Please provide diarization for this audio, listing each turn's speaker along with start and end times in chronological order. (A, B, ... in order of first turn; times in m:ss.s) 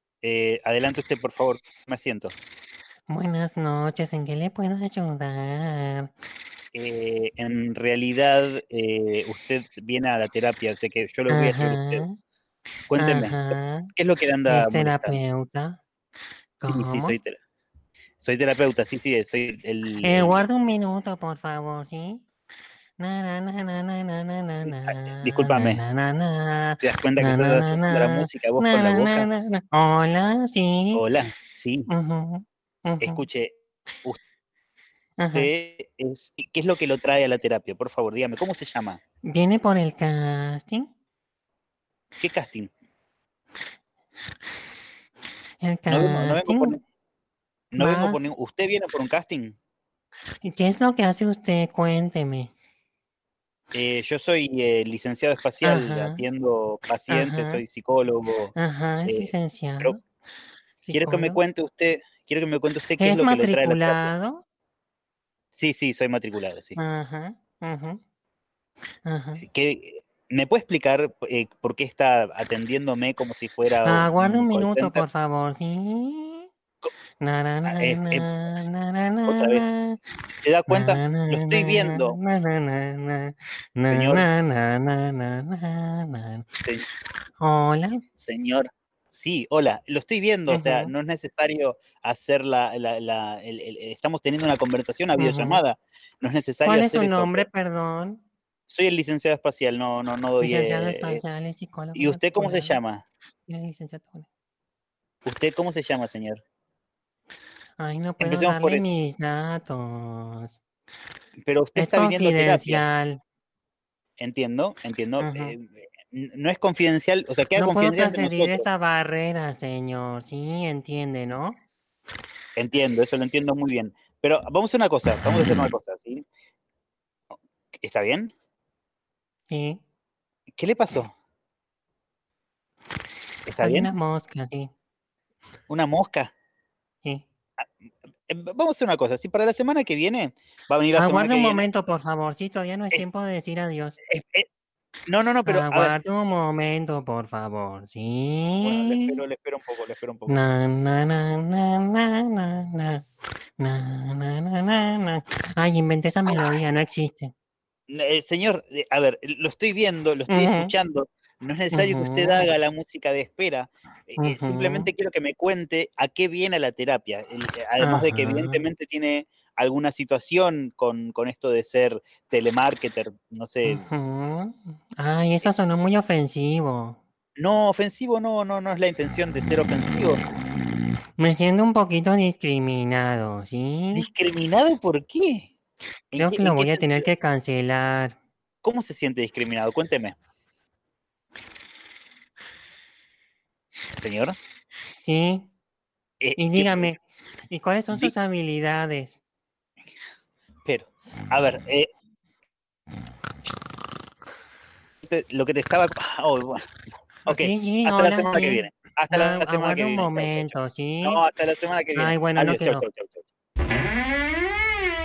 0:00.2-0:02.3 A
0:03.1-0:06.1 B
0:06.7-0:12.0 A
0:11.3-0:12.2 B
0:12.9-0:15.2 A
0:13.0-0:13.9 B
0:14.5-0:15.8 B
0:16.6-0:17.2 B
0:16.6-0:17.4 A
0:18.2-0:20.4 A
0:20.0-0:22.2 B
0:23.0-0:31.0 B
0:24.6-0:25.8 A
0:26.8-0:29.3 A
0:30.9-0:31.9 A
0:31.9-0:33.2 B
0:33.0-0:34.2 A
0:35.2-0:35.5 B
0:35.3-0:39.0 A
0:39.2-0:40.9 B
0:42.2-0:42.7 A
0:45.6-0:46.8 B
0:45.9-0:46.8 A
0:47.7-0:49.6 A
0:47.8-0:48.3 B
0:50.4-0:52.5 B
0:53.7-0:58.5 A
0:55.6-0:56.2 B
0:57.1-0:57.6 B
0:58.6-1:00.0 B
0:59.0-1:00.0 A
1:00.8-1:01.4 B
1:00.9-1:04.1 A
1:03.0-1:04.4 B
1:05.5-1:06.8 A
1:06.8-1:08.0 B
1:09.0-1:09.4 B
1:09.4-1:15.0 A
1:13.8-1:16.5 B
1:17.2-1:20.0 B
1:17.6-1:18.3 A
1:19.2-1:19.6 A
1:20.3-1:22.2 A
1:20.7-1:26.4 B
1:23.9-1:24.3 A
1:27.4-1:28.0 B
1:28.2-1:37.5 A
1:30.5-1:30.9 B
1:35.2-1:35.6 B
1:36.6-1:38.2 B
1:38.7-1:41.2 A
1:40.4-1:42.8 B
1:41.9-1:43.0 A
1:43.5-1:44.3 B
1:45.2-1:46.4 A
1:47.8-1:50.6 B
1:48.2-1:48.8 A
1:51.4-1:52.8 A
1:51.8-1:53.2 B
1:54.2-1:58.7 A
1:55.2-1:55.5 B
1:57.5-2:01.6 B
2:02.6-2:06.2 A
2:07.8-2:08.3 A
2:09.5-2:09.8 B
2:10.6-2:11.1 A
2:13.5-2:13.9 A
2:13.6-2:14.7 B
2:15.7-2:16.3 A
2:18.3-2:21.6 A
2:21.0-2:24.0 B
2:24.1-2:24.5 A
2:25.1-2:25.9 A
2:25.4-2:29.2 B
2:28.6-2:30.4 A
2:30.3-2:33.0 B
2:33.6-2:37.3 B
2:37.9-2:53.8 A
2:40.3-2:40.7 B
2:41.7-2:42.4 B
2:44.2-2:44.9 B
2:47.8-2:48.6 B
2:53.7-2:57.0 B
2:57.4-3:00.2 A
3:01.2-3:04.0 B
3:03.9-3:05.5 A
3:06.1-3:07.1 A
3:06.2-3:08.2 B
3:08.6-3:10.2 A
3:13.9-3:14.4 A
3:15.0-3:15.5 B
3:16.2-3:16.9 A
3:16.4-3:17.0 B
3:17.5-3:19.2 B
3:20.6-3:21.9 A
3:25.0-3:26.6 A
3:27.2-3:33.2 A
3:27.3-3:31.2 B
3:32.0-3:32.8 B